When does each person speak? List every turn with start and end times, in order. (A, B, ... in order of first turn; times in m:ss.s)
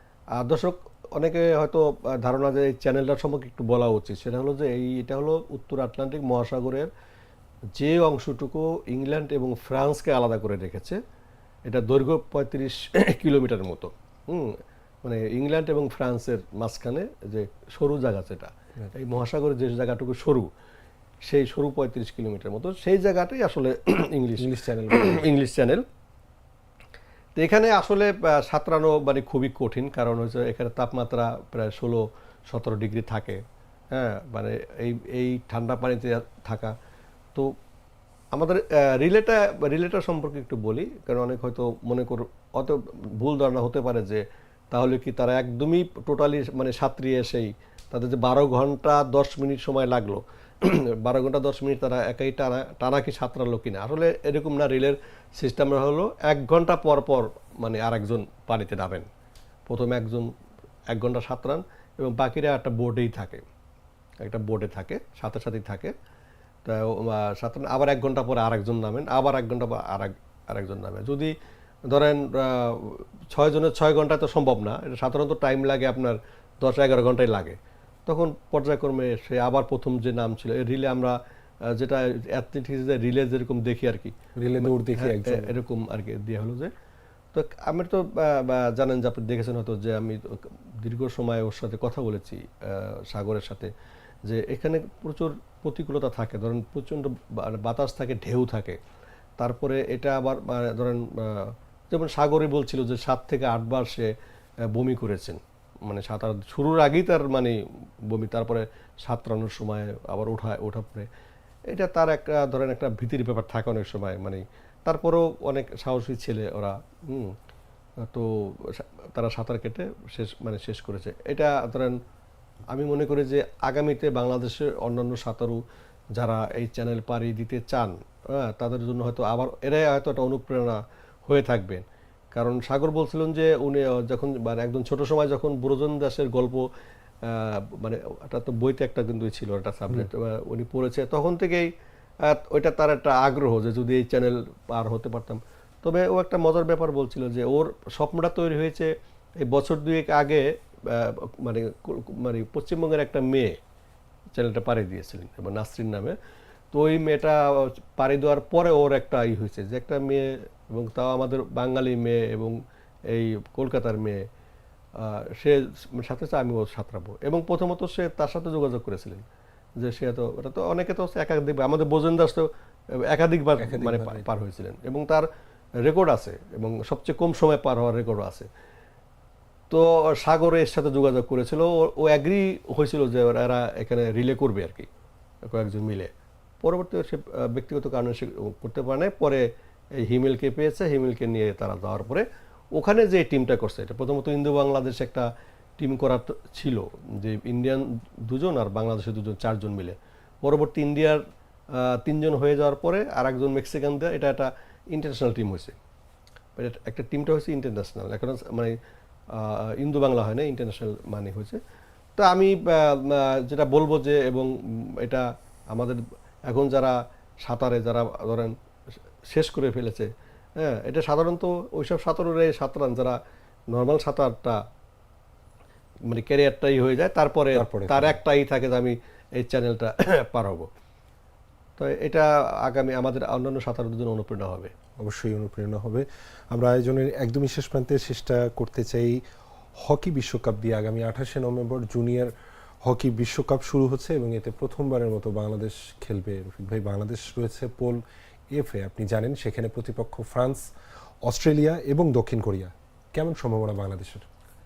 0:00.4-0:06.9 A
0:07.8-0:11.0 A
0:11.6-0:20.5 A
0:21.2-0:25.9 A
0:24.4-0:25.2 B
0:27.4-0:36.8 A
0:38.3-0:59.1 A
0:59.7-1:00.3 A
1:00.9-1:03.4 A
1:04.2-1:05.9 A
1:06.6-1:11.3 A
1:11.9-1:26.7 A
1:24.4-1:25.6 B
1:27.3-1:33.7 A
1:34.3-1:38.8 A
1:39.4-1:44.1 A
1:44.7-1:51.1 A
1:51.7-1:57.4 A
1:58.0-2:02.0 A
2:02.7-2:05.6 A
2:06.2-2:16.7 A
2:17.2-2:21.7 A
2:22.2-2:33.6 A
2:34.3-2:36.2 A
2:36.7-2:44.3 A
2:45.0-2:49.3 A
2:49.8-2:55.3 A
2:53.6-2:54.3 B
2:55.8-2:58.5 A
2:59.7-3:04.9 A
3:05.4-3:15.3 A
3:15.8-3:25.8 A
3:26.6-3:28.8 A
3:29.3-3:31.6 A
3:32.2-3:38.6 A
3:39.3-3:43.2 A
3:43.7-3:44.6 A
3:46.1-3:50.7 A
3:47.5-3:48.2 B
3:51.8-3:54.7 A
3:55.0-3:59.2 B
3:59.8-4:02.3 B
4:02.8-4:08.0 B
4:08.5-4:10.7 B
4:11.2-4:14.3 B